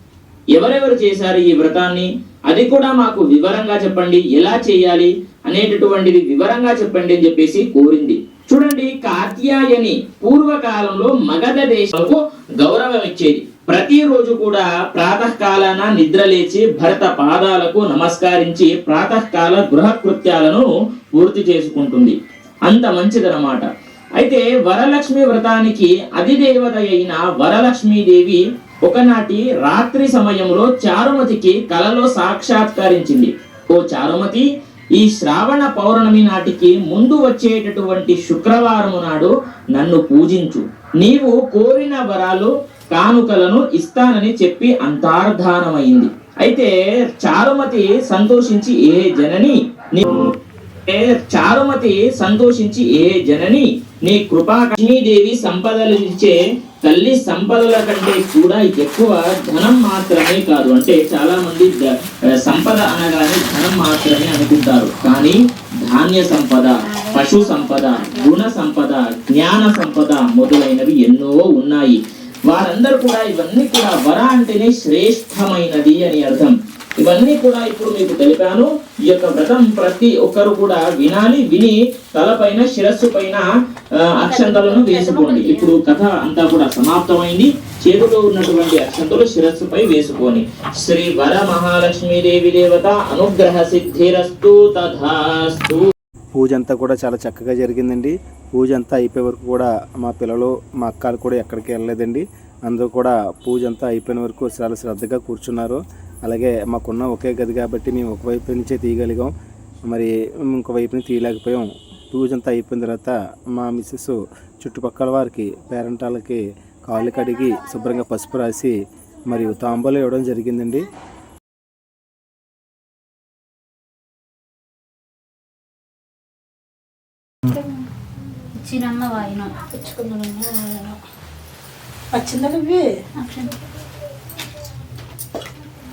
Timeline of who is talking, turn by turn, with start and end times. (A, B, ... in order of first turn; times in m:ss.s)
0:00.6-0:50.3 A
0:50.9-1:23.5 A
1:06.8-1:08.4 B
1:24.2-1:35.9 A
1:24.2-1:25.8 B
1:36.4-1:49.3 C
1:49.9-1:58.8 C
1:59.3-2:00.8 C
2:07.5-2:07.8 D
2:08.5-2:09.5 B
2:09.7-2:11.0 D
2:12.1-2:12.9 D
2:13.2-2:13.6 B